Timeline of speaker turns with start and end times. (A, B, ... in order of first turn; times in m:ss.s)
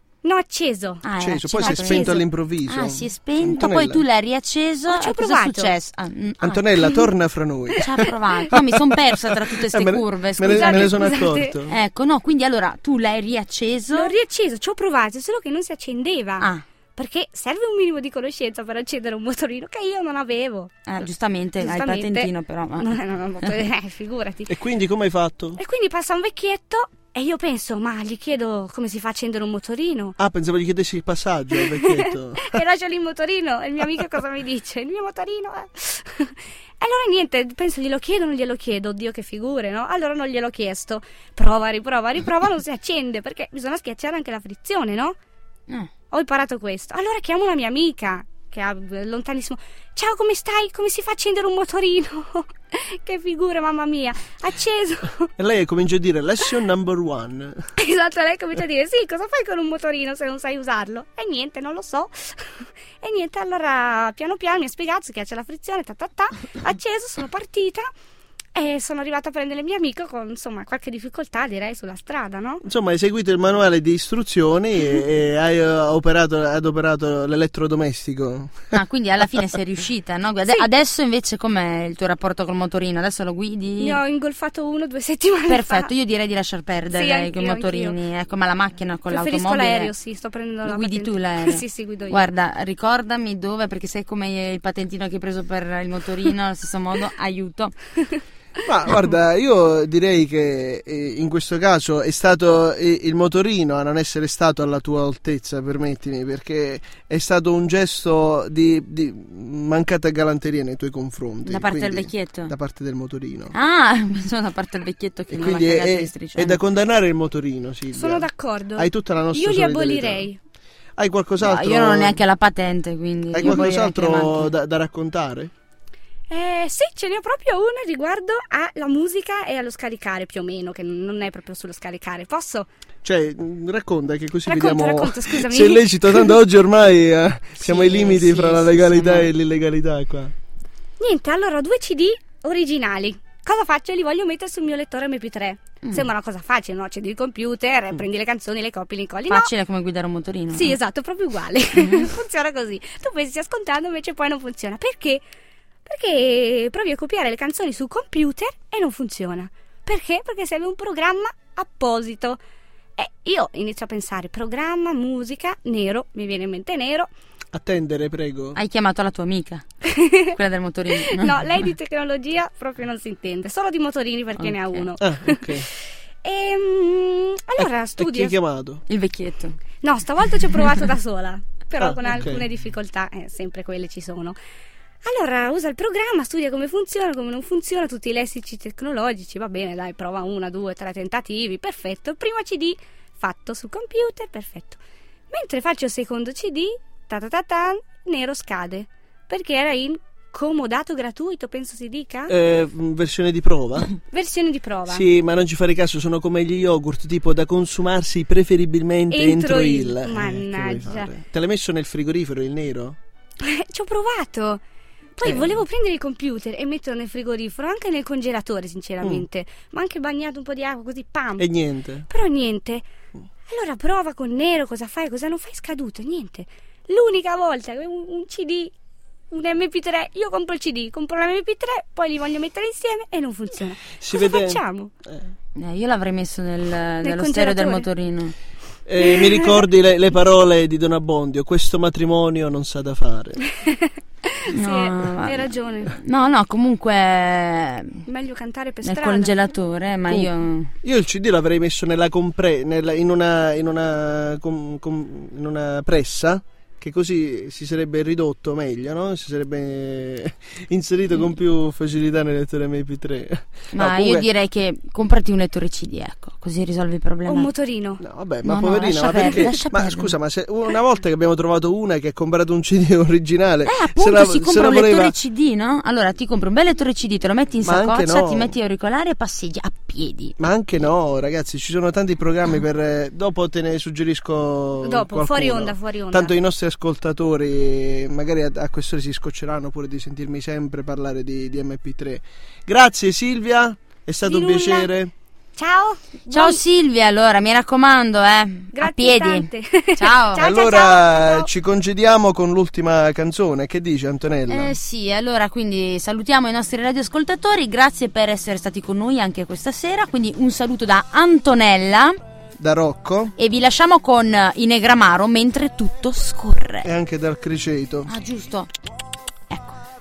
0:00.2-0:01.1 A
0:01.0-0:06.6 B
0:01.2-0:04.0 C
0:01.6-0:02.2 A
0:04.9-0:05.7 A
0:06.4-0:11.8 C
0:07.8-0:14.1 B
0:10.4-0:11.6 A
0:13.9-0:20.8 A
0:20.8-0:23.5 B
0:21.6-0:24.5 A
0:24.5-0:25.6 C
0:25.6-0:30.2 A
0:30.2-0:32.6 C
0:31.5-0:45.2 A
0:46.1-0:55.3 A
0:55.4-0:57.7 C
0:57.8-1:07.9 A
1:08.5-1:12.6 A
1:12.6-1:18.7 C
1:18.7-1:24.0 B
1:23.8-1:25.9 A
1:25.5-1:29.9 B
1:26.9-1:28.0 A
1:29.1-1:32.2 A
1:30.6-1:37.8 B
1:38.6-1:53.5 C
1:51.4-1:52.5 B
1:53.5-1:56.6 B
1:55.3-2:00.3 C
1:57.9-2:00.4 A
2:01.0-2:02.2 C
2:01.4-2:04.5 B
2:03.3-2:05.5 C
2:06.3-2:12.7 A
2:13.0-2:20.3 C
2:14.4-2:16.4 A
2:17.6-2:19.3 B
2:21.0-2:29.5 A
2:29.3-2:30.8 B
2:30.5-2:35.2 A
2:31.7-2:32.1 B
2:35.8-2:42.4 A
2:43.0-2:47.1 A
2:47.5-2:48.6 C
2:48.5-2:49.6 B
2:49.8-2:50.3 A
2:50.2-2:51.7 B
2:51.0-2:58.4 A
2:54.4-2:54.9 B
2:55.0-2:55.7 C
2:57.6-2:58.8 C
2:58.9-2:59.6 B
2:59.8-3:04.4 A
3:01.8-3:02.4 C
3:05.0-3:14.8 A
3:15.3-3:22.3 A
3:22.3-3:23.9 C
3:24.1-3:25.0 A
3:24.9-3:33.0 C
3:29.1-3:31.1 A
3:33.4-3:34.6 A
3:35.2-3:41.5 A
3:35.2-3:35.6 C
3:41.4-3:42.1 C
3:42.1-3:42.9 A
3:43.5-3:48.7 A
3:49.3-3:54.9 A
3:54.0-3:55.3 C
3:55.6-3:58.3 B
3:57.0-3:57.9 A
3:58.8-4:03.4 C
3:59.0-3:59.6 A
4:03.6-4:06.0 A
4:04.5-4:08.0 B
4:08.0-4:09.3 A
4:08.8-4:10.7 B
4:10.8-4:24.2 C
4:23.7-4:27.5 B
4:27.3-4:28.0 A
4:28.0-4:35.1 C
4:28.4-4:30.1 B
4:29.1-4:29.5 A
4:33.6-4:40.4 B
4:37.6-4:38.5 C
4:40.4-4:55.1 C
4:44.8-4:46.3 A
4:54.2-4:54.9 A
4:55.6-4:56.6 A
4:56.3-5:00.4 B
4:58.7-5:01.5 A
5:00.4-5:04.8 C
5:04.5-5:12.2 B
5:12.6-5:13.3 C
5:13.4-5:16.9 B
5:16.8-5:18.1 C
5:18.0-5:18.7 B
5:19.5-5:19.8 B